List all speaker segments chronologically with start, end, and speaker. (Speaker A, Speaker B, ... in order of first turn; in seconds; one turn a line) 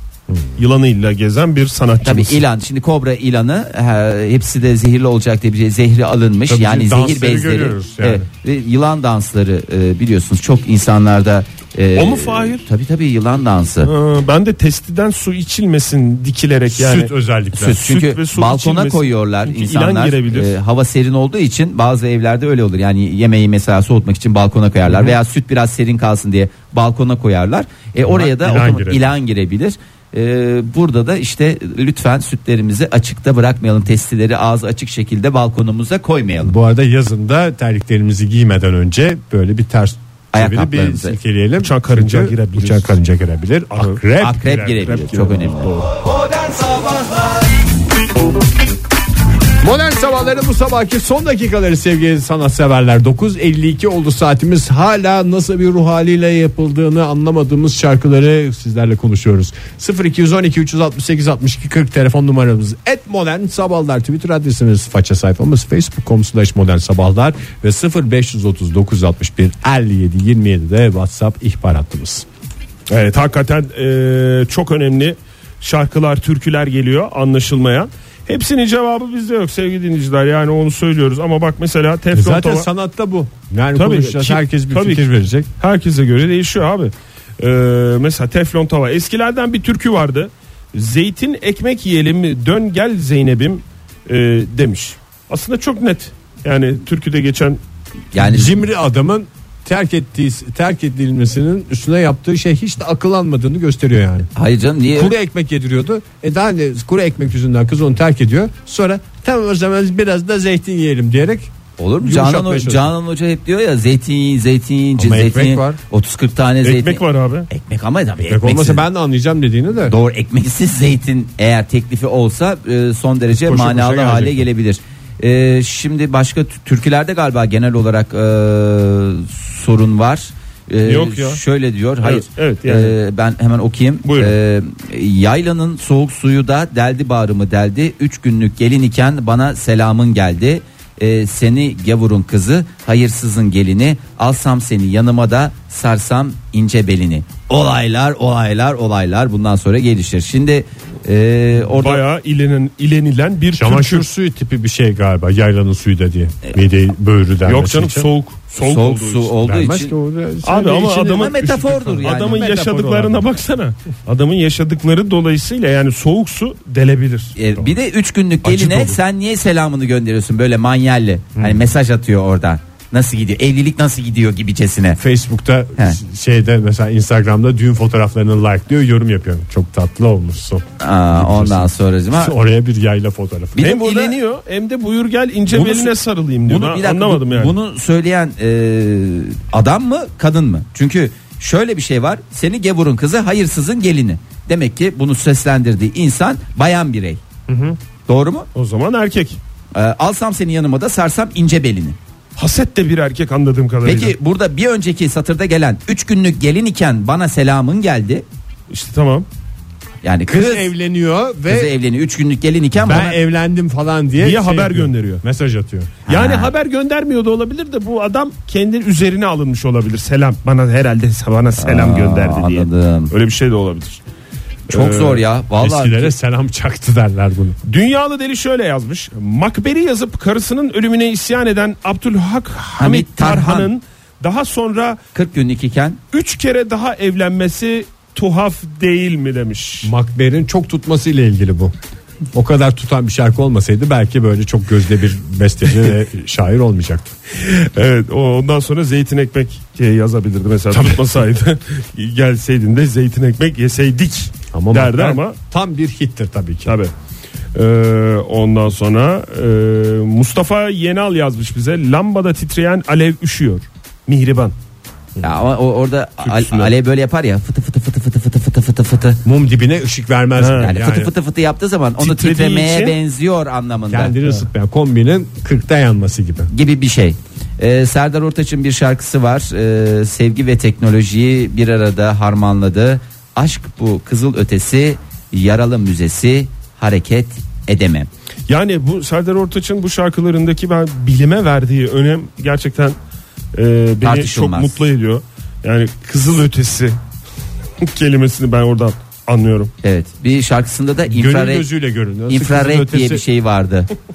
Speaker A: 0.6-2.4
Speaker B: 2.0-13.9
Speaker C: 6.5-8.3
Speaker A: 12.0-12.7
Speaker A: 13.8-17.1
Speaker C: 16.7-17.8
Speaker B: 17.5-36.5
Speaker A: 17.7-20.6
Speaker C: 28.0-29.1
Speaker C: 36.4-44.6
Speaker B: 40.3-41.2
Speaker A: 41.6-43.0
Speaker A: 43.7-45.9
Speaker B: 44.2-45.7
Speaker C: 49.6-72.3
Speaker A: 72.9-82.7
Speaker C: 82.1-85.5
Speaker A: 83.8-85.1
Speaker A: 85.6-97.6
Speaker B: 98.1-98.6
Speaker C: 98.2-104.3
Speaker B: 104.3-105.1
Speaker C: 104.9-112.9
Speaker B: 111.8-118.8
Speaker C: 115.0-115.8
Speaker A: 116.6-117.5
Speaker C: 118.3-120.0
Speaker B: 119.9-152.0
Speaker C: 123.3-124.5
Speaker A: 130.8-131.4
Speaker A: 132.0-133.0
Speaker A: 134.1-134.3
Speaker A: 151.7-154.1
Speaker C: 153.5-158.1
Speaker A: 157.4-159.4
Speaker B: 158.6-159.9
Speaker C: 159.4-163.3
Speaker A: 160.4-167.3
Speaker B: 161.2-162.8
Speaker B: 167.4-175.0
Speaker C: 168.4-169.0
Speaker C: 175.0-180.6
Speaker B: 180.8-182.3
Speaker C: 181.2-183.9
Speaker A: 183.6-187.6
Speaker B: 183.6-184.1
Speaker B: 185.5-185.9
Speaker B: 186.5-197.2
Speaker C: 197.5-197.8
Speaker B: 198.1-198.5
Speaker A: 198.6-199.4
Speaker B: 199.7-202.0
Speaker A: 202.4-204.2
Speaker B: 203.8-208.2
Speaker A: 208.7-209.3
Speaker B: 210.0-210.7
Speaker C: 210.3-211.7
Speaker B: 211.5-213.2
Speaker C: 212.8-216.1
Speaker A: 214.2-215.2
Speaker B: 216.1-216.5
Speaker A: 216.1-224.0
Speaker B: 221.6-223.1
Speaker A: 224.7-225.2
Speaker B: 224.7-226.1
Speaker C: 225.6-227.6
Speaker A: 227.6-235.0
Speaker B: 232.8-233.7
Speaker B: 235.1-236.0
Speaker A: 236.1-239.9
Speaker C: 239.8-241.7
Speaker C: 242.3-247.1
Speaker A: 247.3-255.4
Speaker C: 250.7-251.0
Speaker C: 254.5-256.7
Speaker A: 256.7-256.9
Speaker A: 257.5-264.6
Speaker B: 265.2-269.2
Speaker A: 266.2-266.7
Speaker C: 269.2-271.1
Speaker A: 270.4-270.8
Speaker B: 270.6-274.1
Speaker A: 272.0-273.0
Speaker C: 273.9-276.5
Speaker B: 276.5-288.1
Speaker A: 288.5-293.0
Speaker A: 293.6-297.0
Speaker B: 294.0-294.8
Speaker A: 297.8-299.7
Speaker B: 299.8-301.7
Speaker C: 301.1-303.2
Speaker B: 302.3-303.9